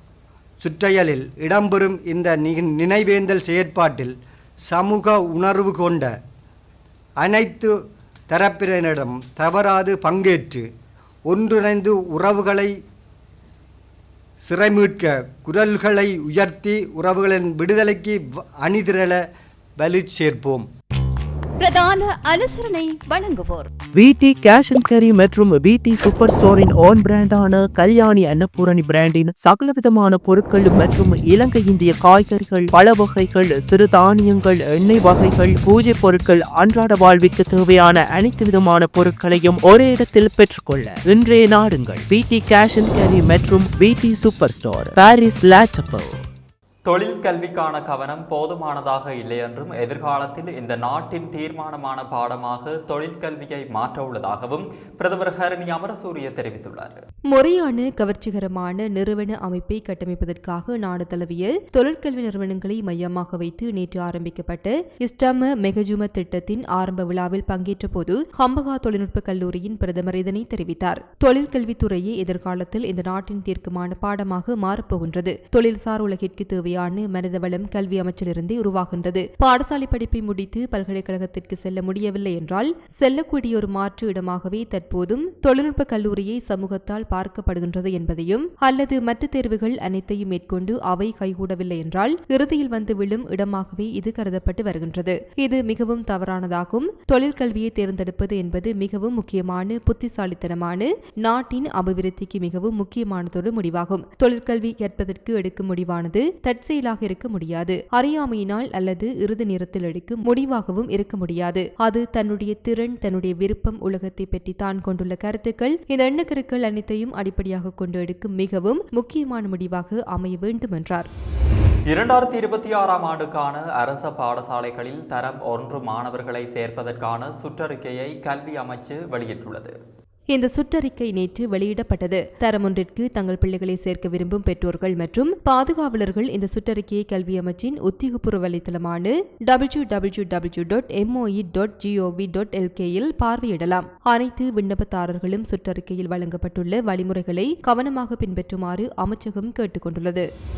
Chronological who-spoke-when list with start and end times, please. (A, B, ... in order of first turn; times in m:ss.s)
0:00.6-0:04.1 A
0:04.7-0:06.1 A
0:07.2-0:07.7 A
0:08.3-0:10.6 A
0:11.3-0:12.7 A
0:14.5-0:19.2 A
0:19.8-0:20.7 A
0:21.6-0:23.7 B
0:23.9-0:46.2 C
0:46.9-0:57.0 D
0:57.3-2:01.1 E
2:01.9-2:09.7 D
2:10.3-2:30.3 E